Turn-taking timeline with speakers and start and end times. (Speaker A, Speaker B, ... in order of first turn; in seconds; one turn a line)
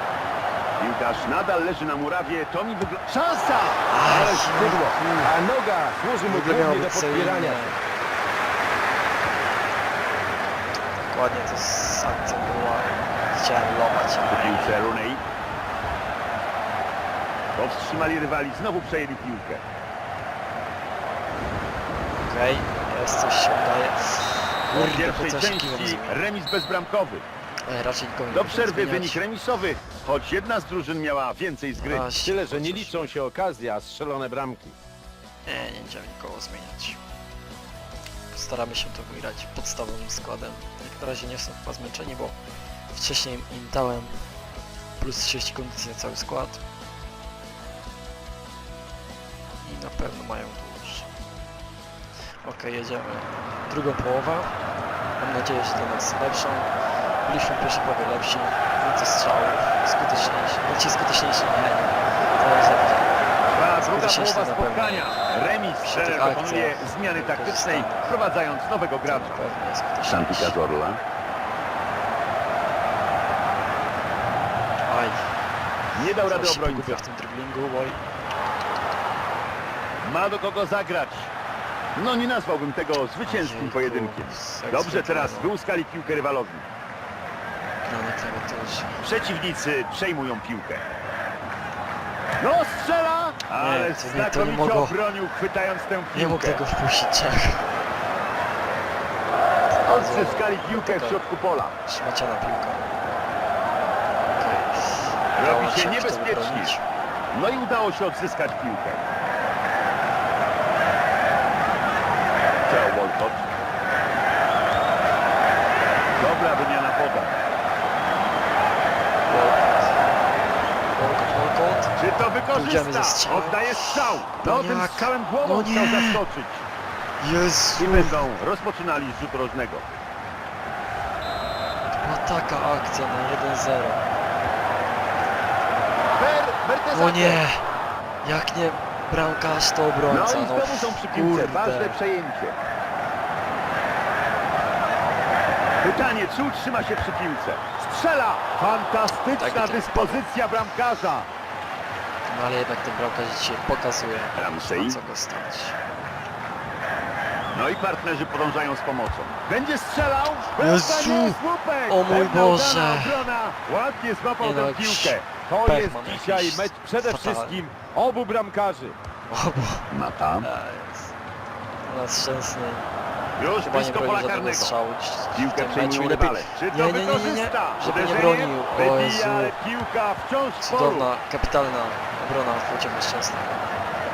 Speaker A: 0.8-4.9
Speaker B: 3.9-5.3
Speaker C: 4.6-7.8
Speaker B: 6.2-7.8
Speaker B: 11.0-14.9
Speaker A: 14.3-15.2
Speaker A: 17.6-19.6
Speaker B: 22.2-26.2
Speaker A: 24.7-27.2
Speaker B: 27.7-29.2
Speaker A: 28.3-32.1
Speaker B: 31.8-33.2
Speaker C: 32.2-34.8
Speaker B: 35.5-37.0
Speaker B: 38.3-42.4
Speaker B: 42.9-44.2
Speaker B: 45.0-46.6
Speaker B: 49.6-51.1
Speaker B: 52.4-54.5
Speaker B: 55.2-56.7
Speaker B: 57.2-63.1
Speaker A: 63.5-69.4
Speaker B: 63.8-65.2
Speaker B: 65.8-68.2
Speaker B: 69.0-70.6
Speaker A: 70.0-71.0
Speaker B: 74.9-75.3
Speaker A: 75.9-77.0
Speaker B: 76.2-78.0
Speaker A: 80.0-81.3
Speaker A: 82.0-86.7
Speaker B: 83.2-85.5
Speaker B: 87.8-89.0
Speaker A: 89.0-90.9
Speaker A: 92.4-96.6
Speaker B: 93.6-95.0
Speaker B: 96.1-97.7
Speaker B: 99.7-101.2
Speaker A: 99.9-101.8
Speaker B: 101.8-102.8
Speaker B: 104.4-106.8
Speaker A: 105.4-106.8
Speaker A: 107.3-109.1
Speaker A: 112.7-113.5
Speaker A: 116.2-117.4
Speaker B: 119.2-120.0
Speaker B: 120.9-121.9
Speaker A: 122.0-126.7
Speaker B: 122.5-126.2
Speaker B: 127.2-128.3
Speaker A: 127.8-129.9
Speaker B: 131.9-134.0
Speaker A: 136.2-137.4
Speaker B: 136.9-137.6
Speaker B: 138.2-142.0
Speaker A: 140.1-142.6
Speaker A: 145.8-151.3
Speaker B: 149.3-150.3
Speaker B: 152.3-155.8
Speaker A: 154.4-155.0
Speaker A: 157.5-165.3
Speaker B: 160.6-163.3
Speaker B: 164.4-167.6
Speaker C: 165.4-169.0
Speaker B: 169.3-169.9
Speaker A: 169.9-170.5
Speaker B: 170.4-171.2
Speaker B: 171.8-179.6
Speaker A: 173.4-174.8
Speaker A: 175.3-181.1
Speaker B: 180.6-183.8